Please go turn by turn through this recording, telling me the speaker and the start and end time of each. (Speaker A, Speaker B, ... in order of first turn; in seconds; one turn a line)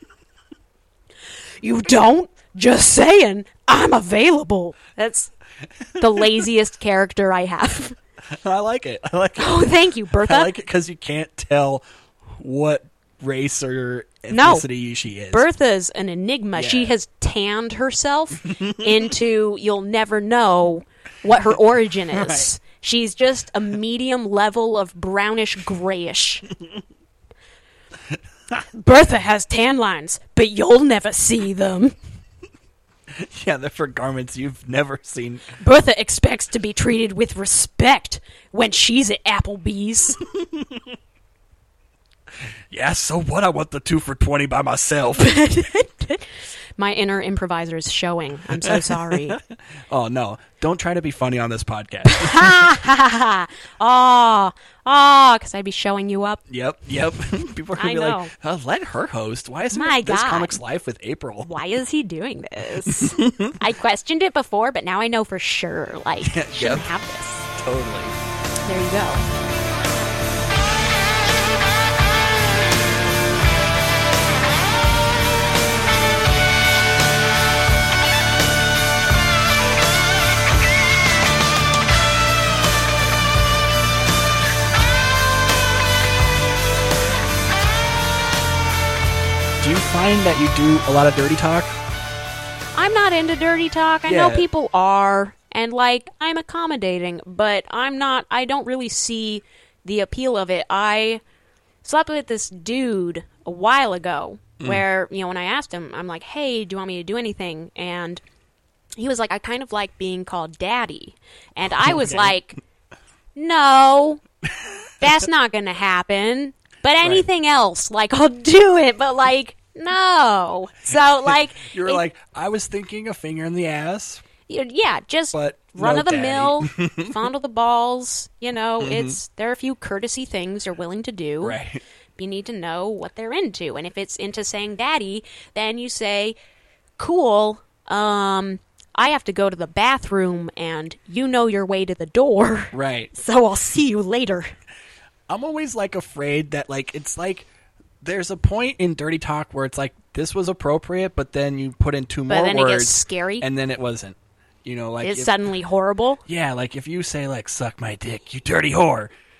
Speaker A: 1.6-5.3
Speaker A: 6.0-8.0
Speaker B: 8.3-15.4
Speaker A: 9.4-10.5
Speaker A: 14.3-14.7
Speaker A: 15.3-26.4
Speaker B: 16.6-16.9
Speaker B: 18.5-18.9
Speaker B: 22.1-22.5
Speaker A: 28.7-31.9
Speaker B: 33.1-35.5
Speaker A: 35.6-40.2
Speaker B: 40.3-40.8
Speaker B: 42.7-45.4
Speaker A: 45.2-49.4
Speaker B: 48.6-52.7
Speaker A: 52.1-56.4
Speaker B: 56.5-61.5
Speaker A: 57.8-58.3
Speaker A: 59.7-60.6
Speaker A: 61.4-67.5
Speaker B: 63.0-63.5
Speaker B: 66.2-66.9
Speaker B: 67.5-68.2
Speaker A: 68.6-69.2
Speaker B: 89.6-91.8
Speaker A: 92.7-101.2
Speaker B: 94.1-94.5
Speaker A: 101.8-108.2
Speaker A: 109.0-112.6
Speaker B: 111.7-112.3
Speaker A: 113.4-114.2
Speaker A: 115.0-122.0
Speaker B: 121.3-124.2
Speaker A: 124.5-131.6
Speaker B: 125.3-127.2
Speaker B: 128.8-129.2
Speaker B: 131.4-131.8
Speaker A: 132.2-136.4
Speaker A: 137.0-144.5
Speaker B: 142.7-143.1
Speaker B: 145.3-147.5
Speaker B: 148.0-155.3
Speaker A: 152.3-153.4
Speaker A: 155.0-156.2
Speaker B: 156.3-159.1